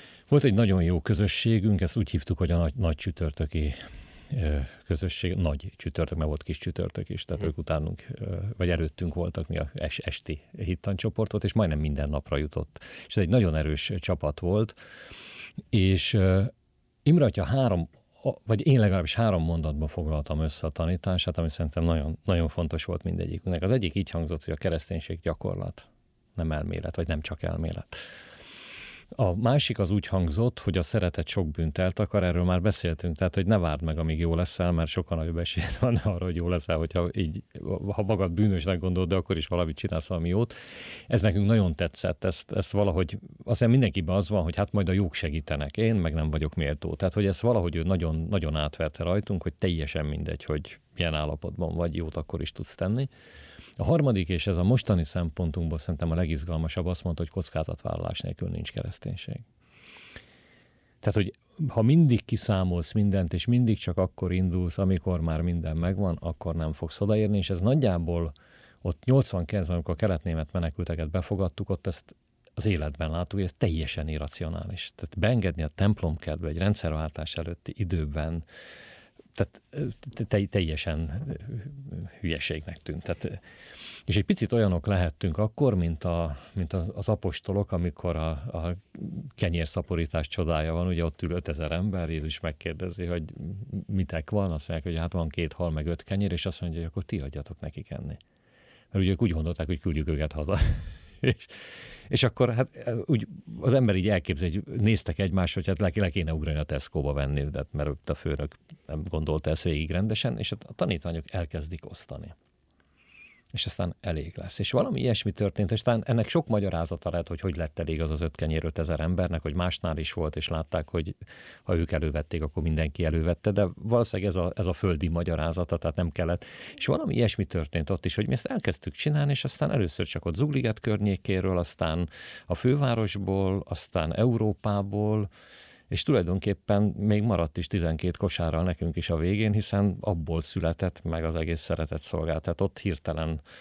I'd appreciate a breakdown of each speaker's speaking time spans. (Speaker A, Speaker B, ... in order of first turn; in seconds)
Speaker A: 0.3-3.8, 4.3-14.8, 15.7-16.5, 17.0-28.0, 29.1-40.5, 41.1-53.1, 53.8-59.5, 61.0-78.4, 79.3-83.4, 84.1-98.2, 98.9-112.3, 113.5-135.3, 135.9-143.4